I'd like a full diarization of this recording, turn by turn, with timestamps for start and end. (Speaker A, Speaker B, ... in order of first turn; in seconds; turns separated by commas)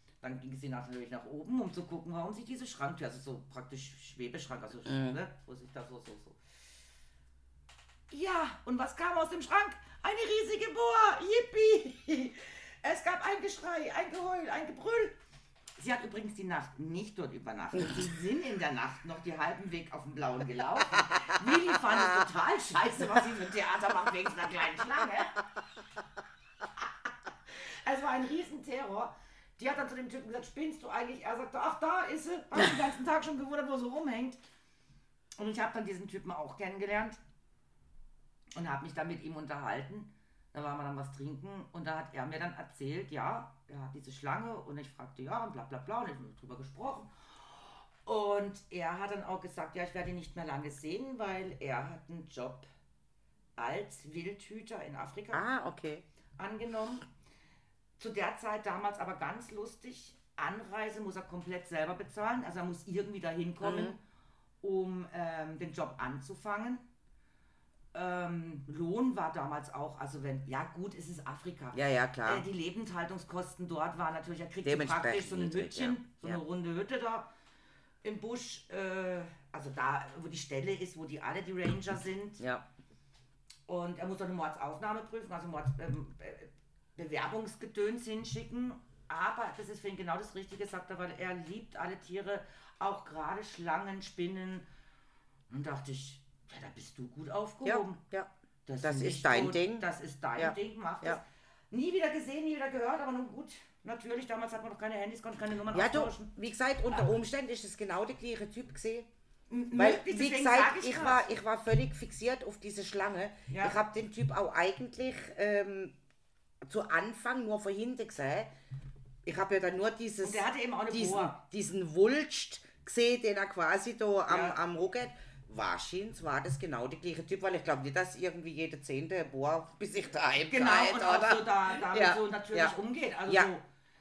Speaker A: 0.2-6.4, Speaker B: 4.9-5.2, Speaker A: 8.1-15.2, Speaker A: 15.8-25.4, Speaker A: 27.7-34.4, Speaker A: 35.4-37.2, Speaker A: 38.5-52.7, Speaker A: 53.6-55.4, Speaker B: 55.3-56.0, Speaker A: 56.4-57.1, Speaker A: 58.0-64.0, Speaker B: 63.6-64.0, Speaker A: 64.6-66.8, Speaker A: 67.9-77.3, Speaker B: 71.7-72.4, Speaker B: 74.6-76.4, Speaker A: 78.0-82.4, Speaker B: 82.4-82.7, Speaker A: 83.7-94.7, Speaker A: 95.5-98.0, Speaker B: 97.6-98.3, Speaker A: 98.7-106.3, Speaker B: 98.8-101.2, Speaker B: 105.7-109.1, Speaker A: 109.5-111.2, Speaker B: 109.7-116.0, Speaker A: 113.5-113.8, Speaker B: 116.6-118.5, Speaker B: 119.2-132.7, Speaker A: 120.2-121.4, Speaker A: 124.3-124.6, Speaker A: 130.5-133.6